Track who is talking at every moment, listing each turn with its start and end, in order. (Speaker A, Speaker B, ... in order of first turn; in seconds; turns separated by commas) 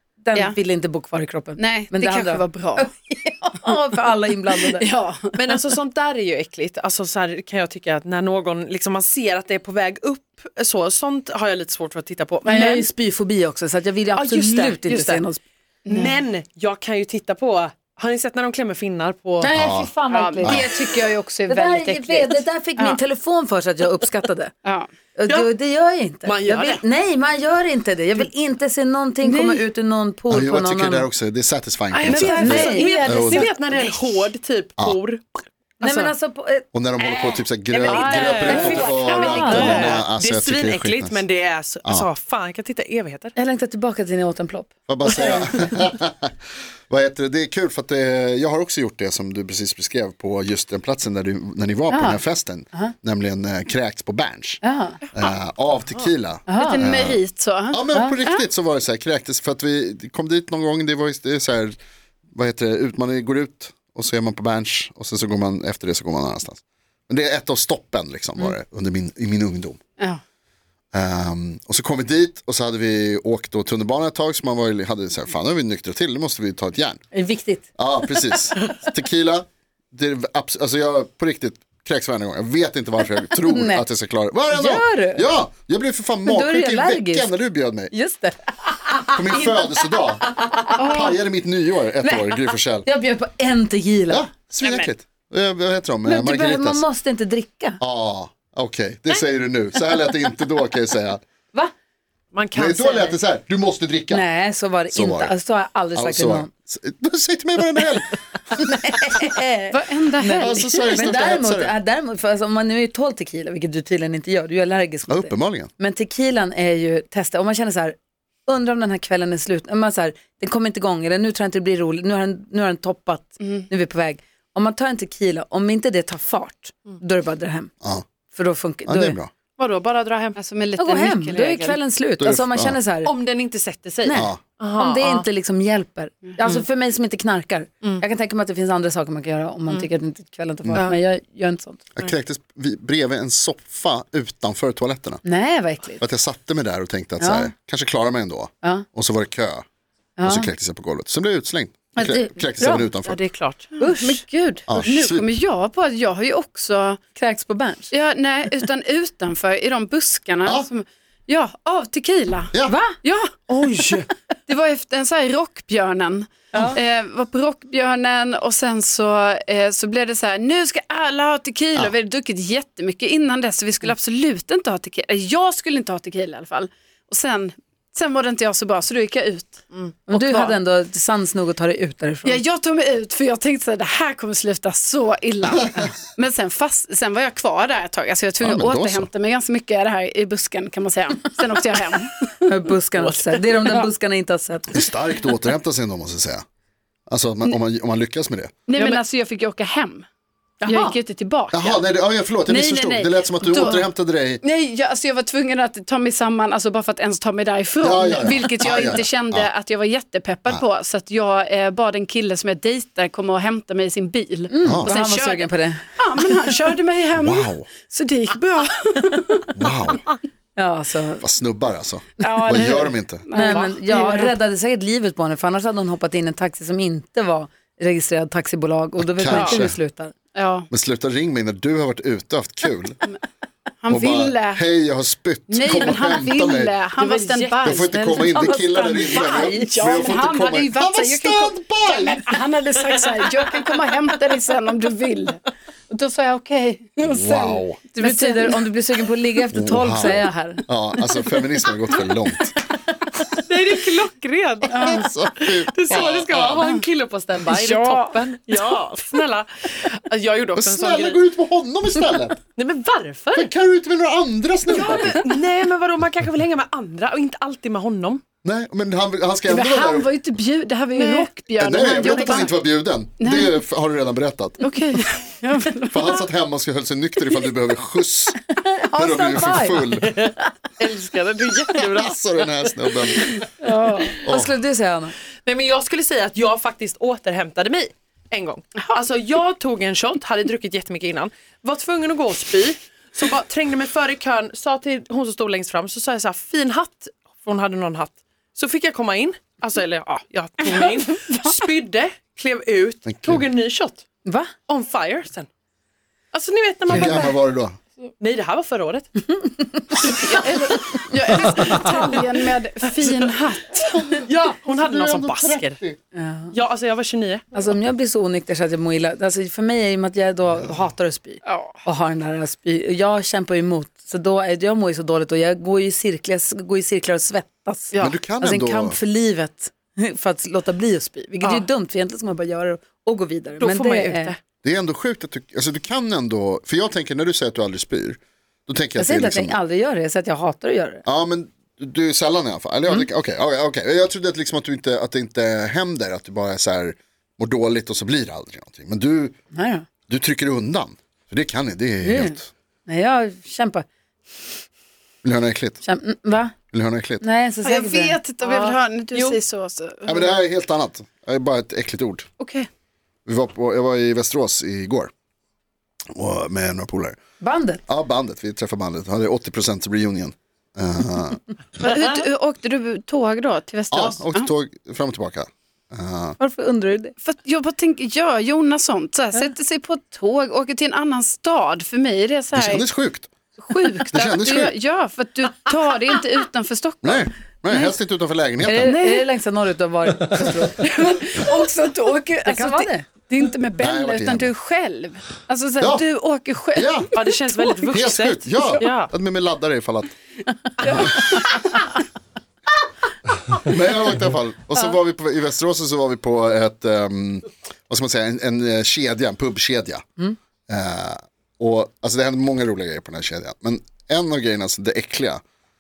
Speaker A: 0.2-4.8, Speaker B: 1.6-2.9, Speaker B: 4.5-5.6, Speaker C: 5.4-12.9, Speaker A: 12.4-15.4, Speaker C: 14.2-15.2, Speaker B: 15.8-16.2, Speaker C: 15.9-19.5, Speaker A: 19.4-20.7, Speaker D: 19.5-19.9, Speaker B: 20.1-23.0, Speaker A: 21.5-24.5, Speaker A: 25.1-31.1, Speaker C: 26.2-26.8, Speaker B: 29.2-29.6, Speaker D: 30.3-33.5, Speaker B: 31.9-34.0, Speaker C: 32.0-35.2, Speaker A: 32.1-33.2, Speaker C: 35.8-36.1, Speaker A: 35.8-40.0, Speaker D: 36.7-41.2, Speaker C: 37.8-43.3, Speaker A: 43.4-45.4, Speaker D: 44.9-46.3, Speaker D: 46.9-54.6, Speaker A: 51.9-52.2, Speaker A: 54.6-55.0, Speaker D: 55.1-57.2, Speaker A: 56.5-56.9, Speaker B: 56.5-58.5, Speaker D: 57.7-61.8, Speaker A: 57.9-58.2, Speaker D: 62.3-69.8, Speaker D: 70.9-77.0, Speaker A: 77.1-77.7, Speaker D: 77.8-87.9, Speaker A: 83.3-83.8, Speaker A: 84.5-85.2, Speaker A: 86.2-87.3, Speaker A: 87.9-91.0, Speaker D: 89.1-92.9, Speaker B: 90.8-91.2, Speaker A: 92.0-94.2, Speaker D: 94.1-96.8, Speaker C: 94.6-94.9, Speaker A: 96.0-97.8, Speaker D: 97.8-101.2, Speaker C: 102.3-103.2, Speaker D: 102.5-104.2, Speaker A: 104.1-106.5, Speaker D: 104.9-105.3, Speaker D: 106.0-108.1, Speaker A: 108.5-127.7, Speaker B: 109.7-111.2, Speaker D: 110.3-111.7, Speaker D: 115.1-115.7, Speaker B: 123.4-123.7, Speaker A: 128.3-129.2, Speaker D: 128.9-129.3, Speaker C: 129.6-130.4, Speaker B: 130.3-131.8, Speaker A: 130.8-133.1, Speaker D: 132.2-132.8, Speaker C: 133.0-135.2, Speaker A: 134.0-141.8, Speaker D: 134.1-134.4, Speaker D: 142.0-145.2, Speaker A: 145.2-146.0, Speaker D: 146.0-149.7, Speaker A: 147.2-147.5, Speaker A: 150.2-150.5, Speaker D: 150.3-153.2, Speaker A: 152.0-152.9, Speaker C: 153.1-153.7, Speaker B: 153.8-157.0, Speaker A: 153.8-154.2, Speaker D: 154.7-155.3, Speaker A: 157.2-157.9, Speaker B: 157.9-163.3, Speaker A: 162.7-163.0, Speaker C: 163.5-164.1, Speaker B: 164.5-180.5, Speaker A: 166.5-166.8, Speaker A: 180.1-182.4, Speaker B: 182.2-192.5, Speaker D: 188.4-189.1, Speaker A: 192.5-194.9, Speaker C: 193.0-193.8, Speaker D: 194.7-196.4, Speaker D: 197.1-198.5, Speaker B: 198.7-200.1, Speaker B: 200.6-201.8, Speaker D: 201.5-204.4, Speaker B: 202.5-203.9, Speaker B: 204.4-219.5, Speaker D: 207.8-209.5, Speaker A: 214.5-216.4, Speaker D: 214.6-214.9, Speaker D: 217.1-217.7, Speaker D: 219.6-220.0, Speaker A: 220.6-221.2, Speaker D: 221.2-223.3, Speaker B: 222.2-224.3, Speaker A: 223.3-230.1, Speaker D: 229.0-229.8, Speaker B: 230.3-230.7, Speaker D: 230.7-233.0, Speaker B: 233.8-234.6, Speaker D: 233.9-236.7, Speaker B: 235.5-238.5, Speaker C: 237.0-237.6, Speaker D: 237.6-242.3, Speaker A: 238.1-239.8, Speaker B: 239.0-248.6, Speaker D: 247.0-247.8, Speaker A: 247.9-250.6, Speaker D: 249.5-252.6, Speaker C: 253.4-261.2, Speaker B: 254.7-255.1, Speaker D: 254.7-256.5, Speaker B: 255.9-256.8, Speaker B: 257.4-258.6, Speaker D: 260.6-262.4, Speaker C: 262.1-263.5, Speaker D: 263.4-265.2, Speaker C: 264.7-268.2, Speaker B: 264.7-265.4, Speaker D: 268.4-270.1, Speaker B: 269.5-272.5, Speaker C: 270.9-271.3, Speaker D: 271.6-274.6, Speaker C: 272.1-272.4, Speaker B: 273.2-273.5, Speaker B: 274.6-276.2, Speaker D: 275.9-278.4, Speaker A: 278.6-279.9, Speaker D: 278.9-280.2, Speaker C: 280.0-283.4, Speaker D: 281.8-283.4, Speaker B: 283.6-284.2, Speaker D: 284.2-284.5, Speaker A: 284.2-285.1, Speaker C: 285.4-304.0, Speaker D: 303.1-303.5, Speaker A: 304.2-304.5, Speaker C: 304.7-305.5, Speaker C: 306.3-307.4, Speaker D: 306.9-307.8, Speaker C: 308.2-309.1, Speaker A: 309.4-310.1, Speaker B: 310.0-314.2, Speaker C: 313.0-313.4, Speaker C: 314.2-315.8, Speaker D: 314.6-316.0, Speaker A: 316.1-316.5, Speaker C: 316.5-317.4, Speaker A: 317.5-334.4, Speaker B: 321.4-321.8, Speaker C: 327.9-328.2, Speaker D: 328.0-329.0, Speaker C: 333.6-334.4, Speaker D: 334.6-339.5, Speaker A: 339.0-341.0, Speaker D: 341.1-349.4, Speaker A: 349.5-349.9, Speaker D: 350.1-352.5, Speaker A: 352.0-353.9, Speaker D: 355.2-355.8, Speaker A: 355.8-356.5, Speaker D: 356.7-357.2, Speaker A: 357.2-358.2, Speaker B: 357.6-360.4, Speaker C: 358.4-359.4, Speaker D: 360.1-362.3, Speaker B: 362.4-362.7, Speaker D: 363.3-365.1, Speaker D: 366.1-367.2, Speaker A: 367.4-367.8, Speaker D: 367.9-371.4, Speaker B: 371.8-374.5, Speaker C: 371.8-372.2, Speaker D: 373.9-376.4, Speaker A: 376.4-377.1, Speaker B: 377.2-382.9, Speaker D: 382.5-383.3, Speaker B: 383.7-387.8, Speaker D: 384.1-384.7, Speaker D: 387.0-388.9, Speaker A: 388.6-390.8, Speaker B: 388.9-389.2, Speaker B: 390.8-397.2, Speaker A: 392.1-393.1, Speaker D: 393.8-394.5, Speaker D: 396.8-397.1, Speaker C: 397.1-399.1, Speaker D: 397.9-400.1, Speaker D: 400.8-401.3, Speaker D: 403.6-410.0, Speaker D: 410.7-415.4